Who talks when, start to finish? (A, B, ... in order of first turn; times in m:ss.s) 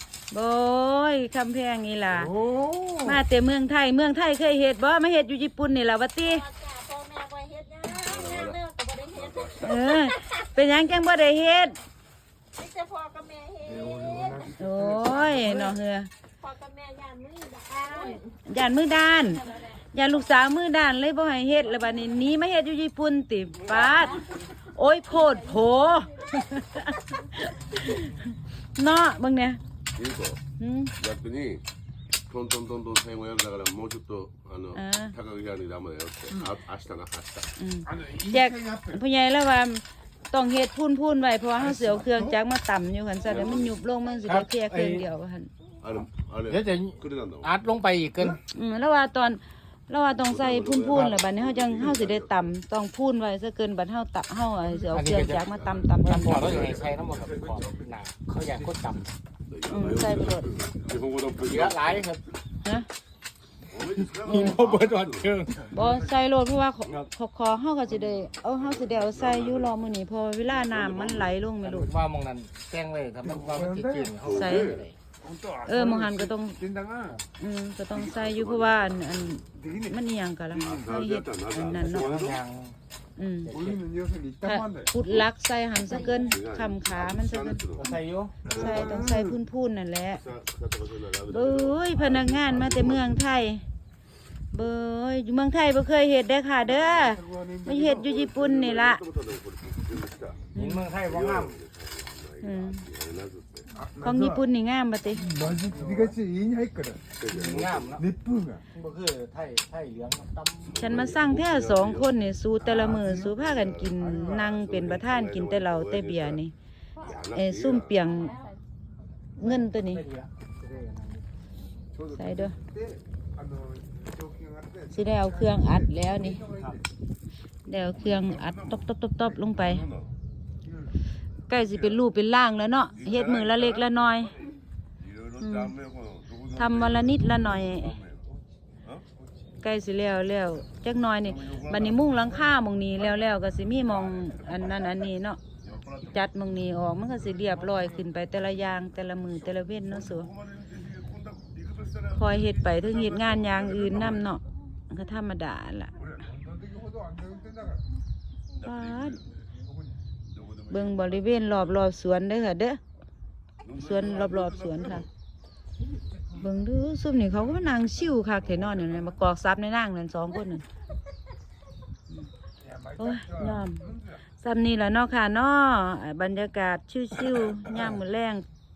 0:00.3-0:02.4 A
0:02.4-0:02.9 B
0:03.0-0:06.5 A
0:06.3-0:10.5 C
0:07.9-0:09.7 D
0:09.6-0:11.8 A
0:12.6-0:14.6 C
0:13.7-0:15.8 B
0:14.6-0:16.1 A
0:16.4-0:18.3 C
0:18.3-0:29.6 A
0:19.2-0:19.8 C
0:23.7-0:27.4 C
0:30.0-0:30.4 D
0:30.6-0:30.9 A
0:31.0-0:31.6 D
0:32.3-0:37.5 D
0:34.7-0:35.2 A
0:37.6-0:45.5 A
0:37.9-0:39.0 B
0:41.7-0:42.2 B
0:43.2-0:43.8 D
0:44.3-0:45.0 E
0:45.8-0:47.5 D
0:46.5-0:48.4 E
0:48.5-0:56.6 A
0:50.1-0:52.5 D
0:50.9-0:51.2 E
0:54.8-0:55.5 E
0:55.5-0:58.0 D
0:56.0-0:59.1 E
0:59.5-1:02.1 D
0:59.7-1:00.5 A
1:01.4-1:02.2 E
1:03.7-1:06.1 D
1:04.0-1:05.6 E
1:04.3-1:04.6 A
1:05.7-1:11.9 A
1:08.6-1:09.8 D
1:10.5-1:11.4 D
1:11.6-1:15.0 E
1:13.2-1:14.1 B
1:14.2-1:14.8 D
1:14.3-1:14.8 A
1:15.2-1:17.2 B
1:15.7-1:16.6 A
1:17.4-1:22.1 A
1:17.9-1:19.4 D
1:19.6-1:20.0 B
1:20.5-1:22.4 D
1:21.8-1:22.8 E
1:23.2-1:23.5 A
1:23.4-1:23.8 E
1:23.5-1:24.9 B
1:24.4-1:27.6 A
1:26.0-1:27.9 D
1:27.7-1:28.5 E
1:28.4-1:29.1 D
1:28.5-1:30.2 A
1:28.5-1:29.4 B
1:30.1-1:33.2 D
1:31.2-1:33.6 A
1:34.5-1:39.0 A
1:37.0-1:37.9 B
1:37.8-1:43.7 D
1:40.5-1:40.9 A
1:40.6-1:41.6 E
1:42.4-1:42.9 A
1:43.8-1:44.4 B
1:44.0-1:45.3 A
1:45.1-1:47.0 B
1:45.5-1:46.1 E
1:47.2-1:48.0 D
1:47.3-1:48.1 E
1:48.0-1:48.6 B
1:48.7-1:50.9 E
1:50.7-1:52.1 D
1:50.8-1:56.5 A
1:52.6-1:53.3 B
1:53.2-1:56.4 D
1:54.0-1:54.4 B
1:57.0-1:57.2 C
1:57.0-1:58.0 D
1:57.3-1:58.3 A
1:58.0-1:58.6 C
1:59.4-2:01.2 E
1:59.4-2:00.0 A
2:02.0-2:06.8 B
2:02.1-2:02.6 A
2:04.9-2:06.5 A
2:06.5-2:06.8 E
2:07.7-2:09.8 A
2:08.0-2:08.9 D
2:09.6-2:10.1 D
2:10.6-2:10.9 B
2:11.5-2:14.3 A
2:11.7-2:12.0 D
2:13.0-2:18.3 D
2:15.4-2:15.7 A
2:16.6-2:18.0 A
2:19.6-2:25.4 A
2:21.3-2:22.3 D
2:25.6-2:26.2 D
2:26.0-2:30.3 A
2:30.0-2:34.3 D
2:32.2-2:35.9 A
2:36.3-2:37.8 B
2:38.6-2:39.4 D
2:38.6-2:39.2 A
2:40.3-2:41.6 D
2:40.7-2:42.8 A
2:43.6-2:45.1 D
2:43.8-2:45.1 A
2:46.3-2:50.6 A
2:47.4-2:49.2 D
2:52.6-2:54.2 B
2:53.0-2:53.9 A
2:54.4-2:58.4 A